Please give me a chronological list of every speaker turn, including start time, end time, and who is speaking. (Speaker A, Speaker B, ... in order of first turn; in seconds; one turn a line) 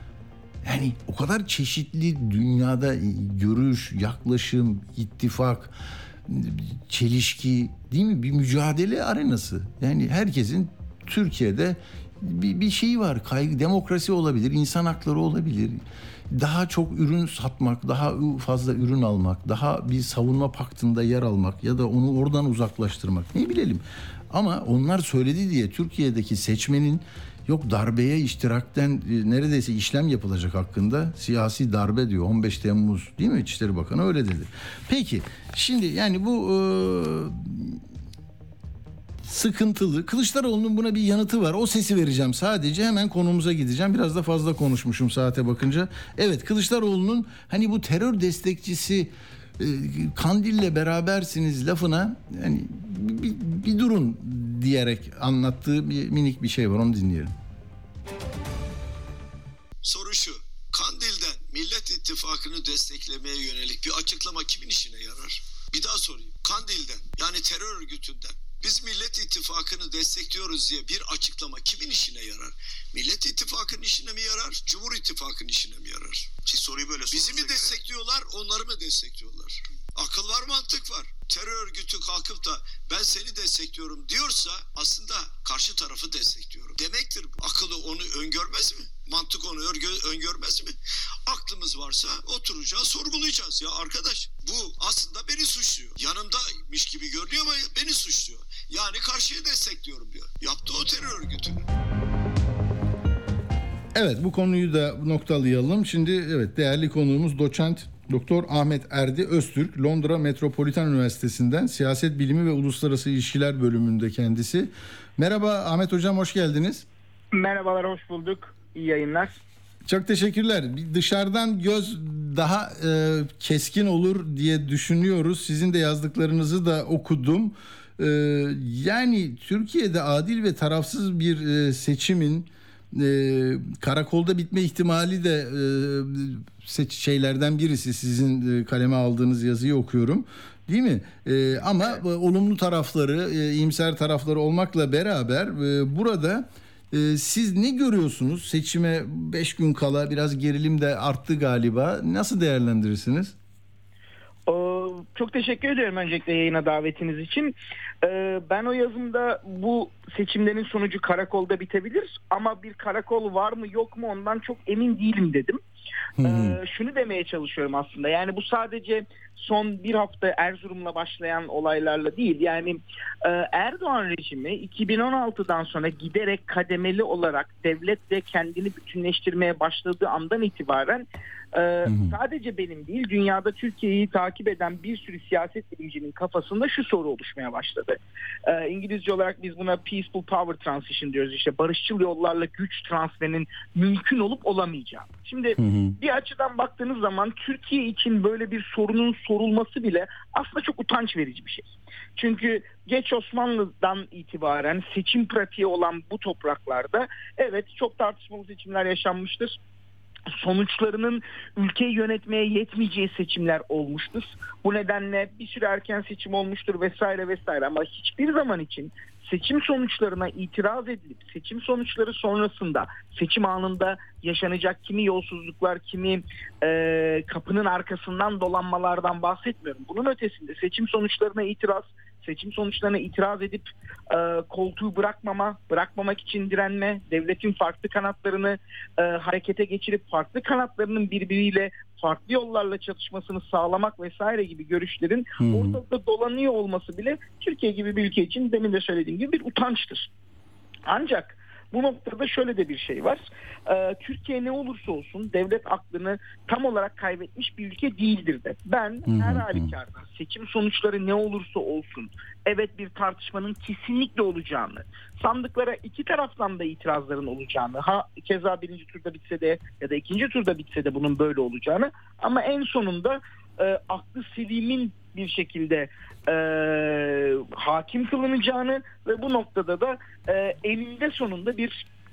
Speaker A: 0.6-5.7
Speaker A: 6.3-37.8
Speaker A: 39.2-57.3
Speaker B: 59.8-90.8
Speaker B: 91.3-101.7
Speaker A: 104.0-116.9
Speaker C: 117.3-119.4
Speaker A: 119.9-153.4
Speaker C: 154.5-165.6
Speaker A: 166.2-166.6
Speaker C: 166.2-209.6
Speaker A: 181.9-182.2
Speaker A: 195.6-196.0
Speaker C: 210.3-250.1
Speaker A: 245.4-245.8
Speaker C: 250.9-281.9
Speaker A: 259.1-259.7